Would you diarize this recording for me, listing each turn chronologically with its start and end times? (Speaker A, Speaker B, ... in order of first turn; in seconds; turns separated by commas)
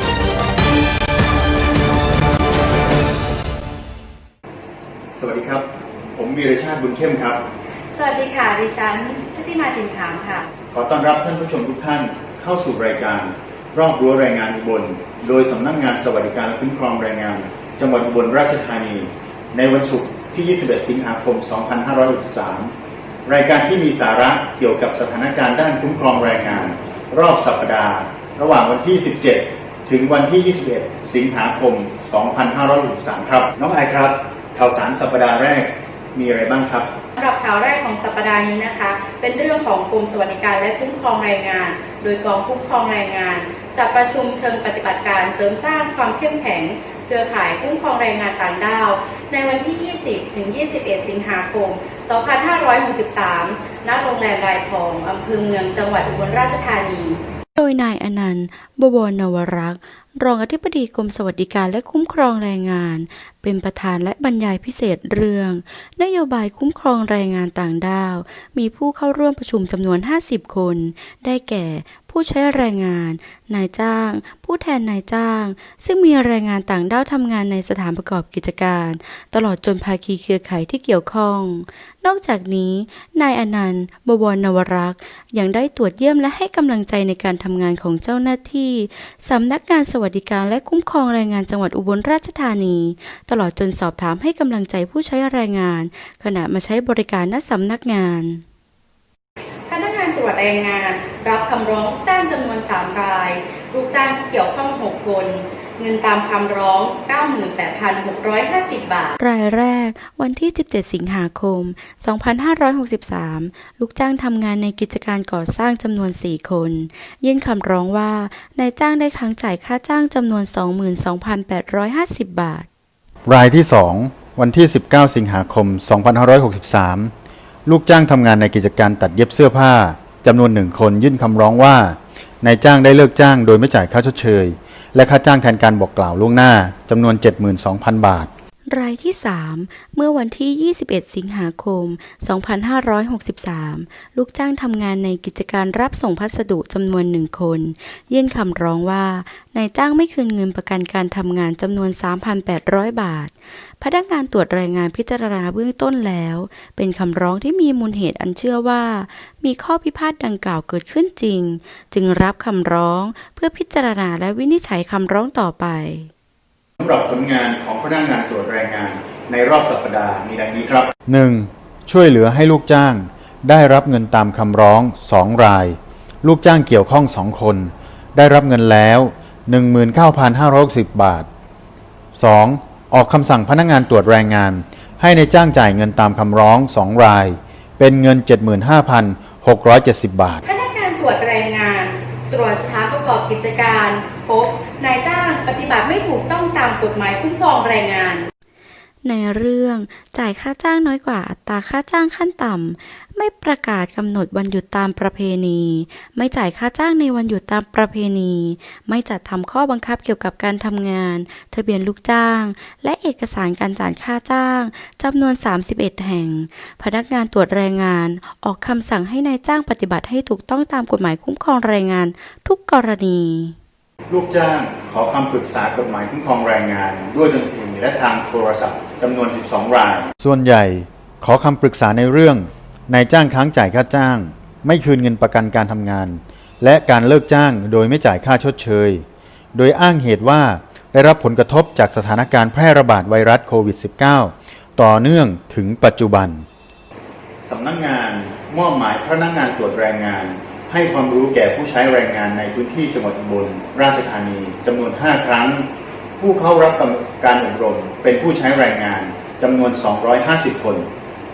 Speaker A: 5.1-7.4, Speaker B: 7.9-10.5, Speaker A: 10.7-22.7, Speaker A: 23.2-36.9, Speaker B: 37.1-57.2, Speaker C: 57.5-98.4, Speaker B: 99.7-109.2, Speaker C: 109.2-122.7, Speaker A: 123.3-127.1, Speaker A: 127.7-138.3, Speaker C: 138.7-166.1, Speaker A: 166.8-181.3, Speaker A: 182.2-190.4, Speaker B: 190.4-198.3, Speaker C: 199.0-223.5, Speaker A: 224.1-246.4, Speaker A: 247.4-255.7, Speaker A: 256.2-260.9